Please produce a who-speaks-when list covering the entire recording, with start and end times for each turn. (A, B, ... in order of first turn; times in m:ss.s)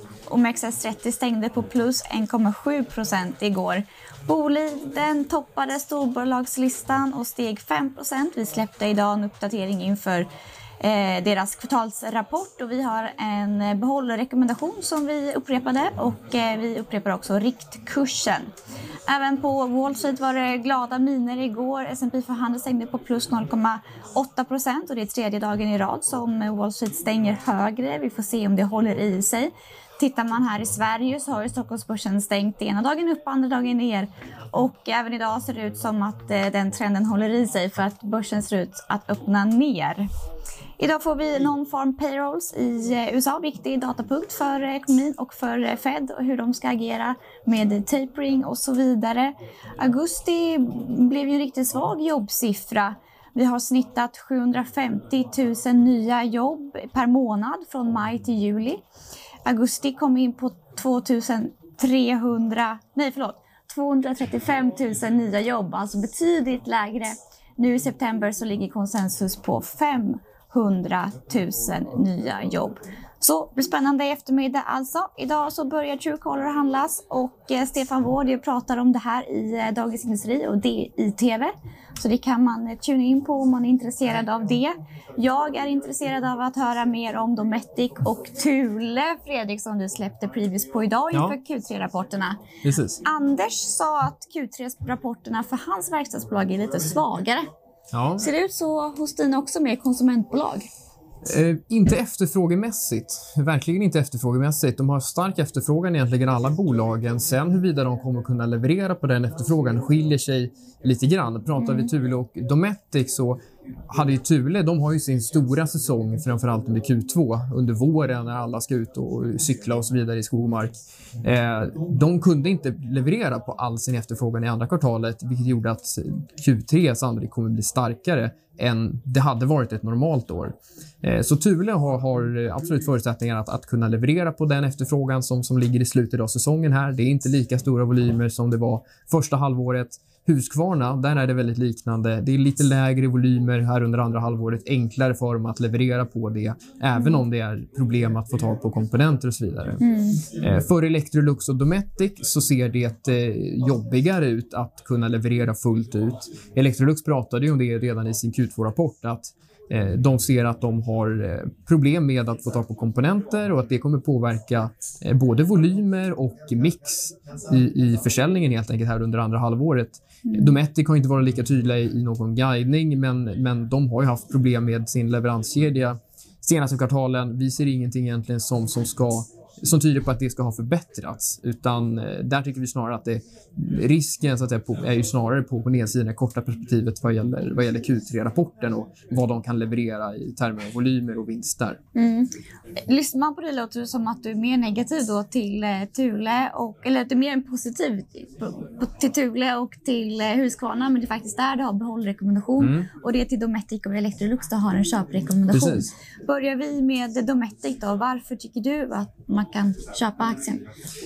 0:00.3-0:10.3 A
0:10.8-0:18.5 A
0:19.1-0:40.0 A
0:40.8-0:58.8 A
0:59.4-1:32.4 A
1:32.6-1:33.0 B
1:33.0-1:37.5 A
1:37.9-1:38.3 B
1:38.2-1:40.7 A
1:41.2-1:53.4 B
1:51.6-1:51.9 A
1:53.9-2:29.8 B
2:29.8-2:30.2 A
2:30.4-3:11.8 B
2:50.2-2:50.5 A
3:11.9-3:12.3 A
3:12.8-3:30.6 A
3:22.6-3:22.9 B
3:25.5-3:25.9 B